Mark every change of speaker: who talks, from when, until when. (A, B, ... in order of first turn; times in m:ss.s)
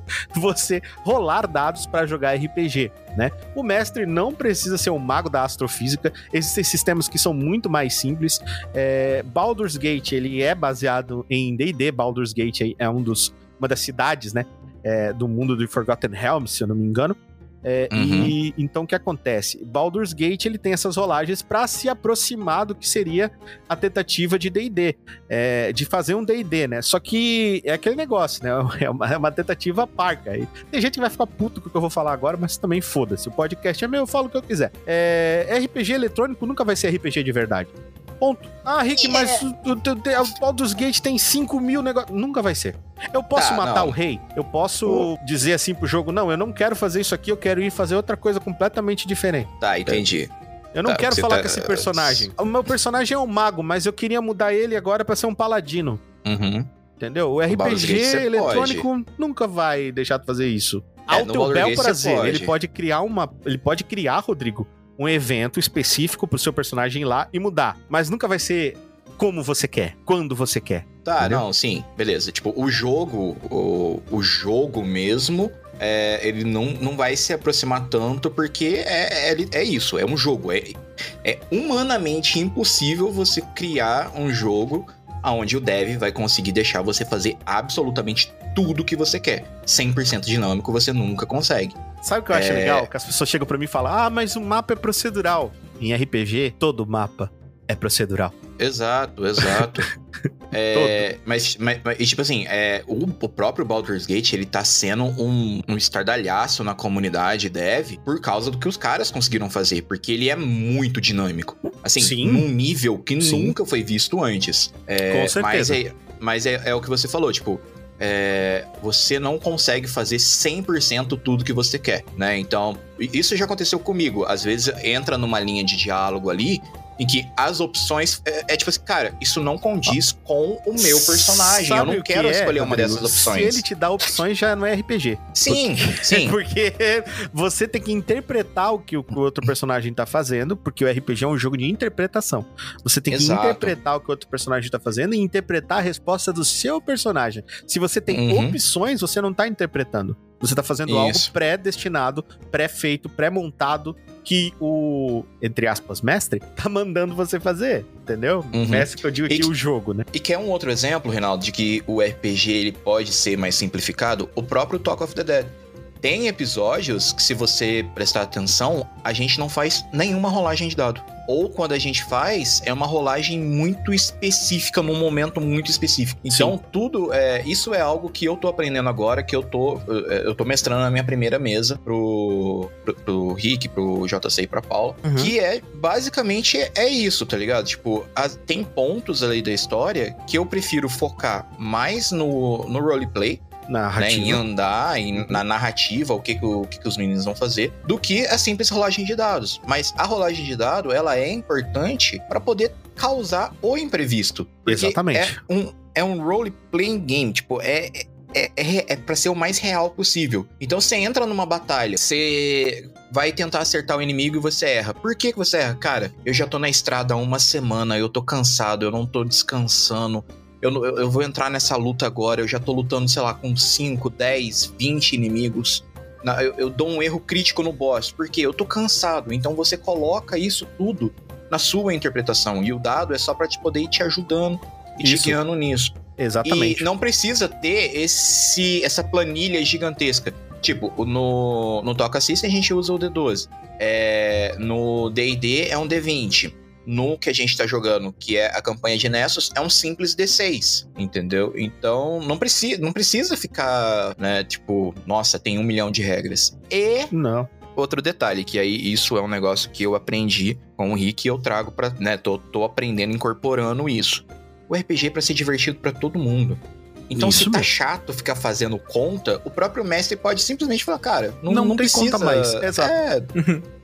0:00.3-0:50.0 A
0:17.9-0:18.3 B
0:39.1-0:39.4 B
0:43.4-0:44.0 B
0:49.6-0:50.3 B
0:50.8-0:56.0 A
0:50.9-0:52.3 B
0:56.2-0:56.7 B
0:57.0-1:11.4 A
0:57.5-0:58.9 B
1:01.1-1:02.5 B
1:11.0-1:31.8 B
1:32.0-1:38.3 A
1:32.3-1:32.9 B
1:38.6-1:39.9 B
1:39.4-1:39.8 A
1:40.5-2:13.7 B
1:40.7-1:41.0 A
1:52.0-1:52.5 A
1:53.2-1:53.6 A
1:55.1-1:55.8 A
2:10.8-2:40.0 A
2:15.4-2:16.4 B
2:23.1-2:23.8 B
2:28.1-2:28.6 B
2:30.9-2:31.3 B
2:38.5-2:39.5 B
2:40.1-3:13.4 B
2:56.3-2:56.6 A
3:13.7-3:14.4 A
3:14.0-4:17.1 B
3:15.1-3:15.4 A
3:24.7-3:25.4 A
3:55.0-3:55.4 A
3:56.2-3:56.9 A
4:17.1-4:17.5 A
4:17.8-4:33.4 B
4:27.1-4:27.7 A
4:31.5-4:32.9 A